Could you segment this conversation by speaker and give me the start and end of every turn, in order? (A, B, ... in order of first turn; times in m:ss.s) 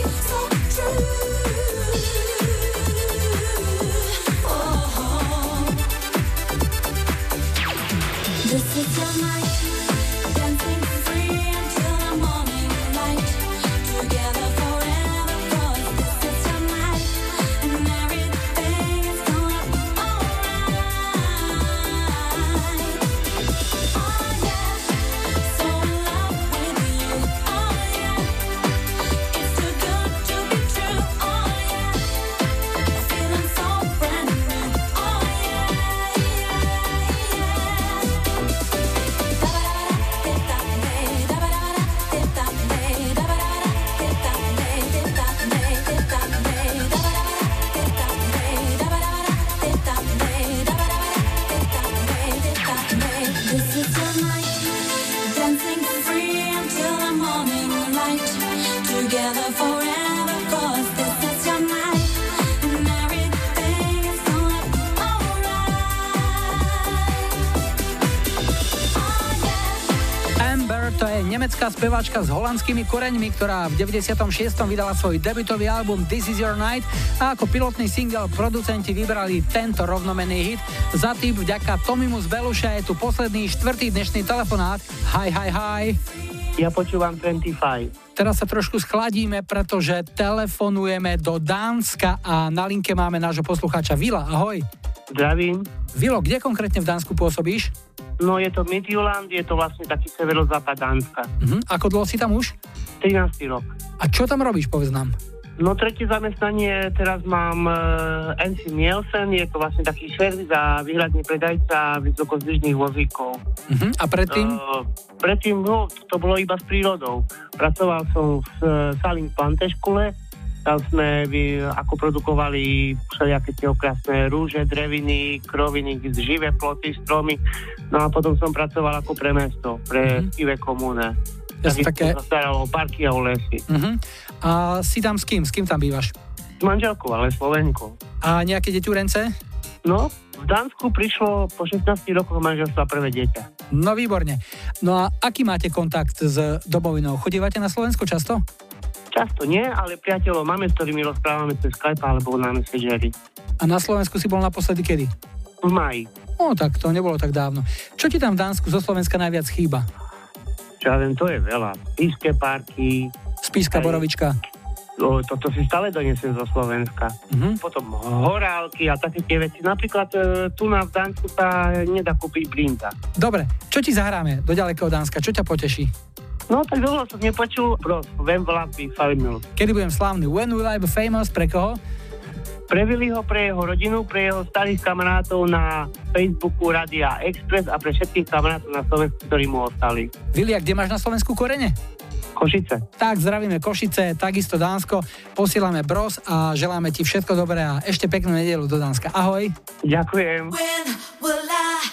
1:10.4-1:26.0 A
1:26.6-1:27.9 B
1:28.2-1:34.6 A
1:35.1-1:35.7 B
1:35.9-1:37.7 A
1:38.2-1:41.3 B
1:41.4-1:42.5 A
1:43.0-1:43.7 B
1:44.0-1:45.1 A
1:45.6-1:53.4 B
1:53.7-1:54.6 A
1:54.3-2:00.1 B
2:00.6-2:07.4 B
2:07.9-2:13.6 B
2:11.6-2:12.2 A
2:13.7-2:16.1 A
2:16.6-2:18.0 B
2:18.2-2:19.3 A
2:19.8-2:23.5 B
2:23.7-2:28.4 A
2:29.1-2:33.1 B
2:33.6-2:35.1 A
2:35.6-2:36.1 B
2:36.4-2:39.8 A
2:40.8-2:43.1 B
2:43.4-2:44.3 A
2:43.7-2:44.0 B
2:45.0-2:52.9 B
2:47.3-2:47.6 A
2:53.2-2:55.9 A
2:56.5-2:59.4 B
2:59.6-3:01.8 A
3:02.7-3:10.1 B
3:10.3-3:11.7 A
3:12.4-3:12.8 B
3:13.0-3:19.5 A
3:19.8-3:20.6 B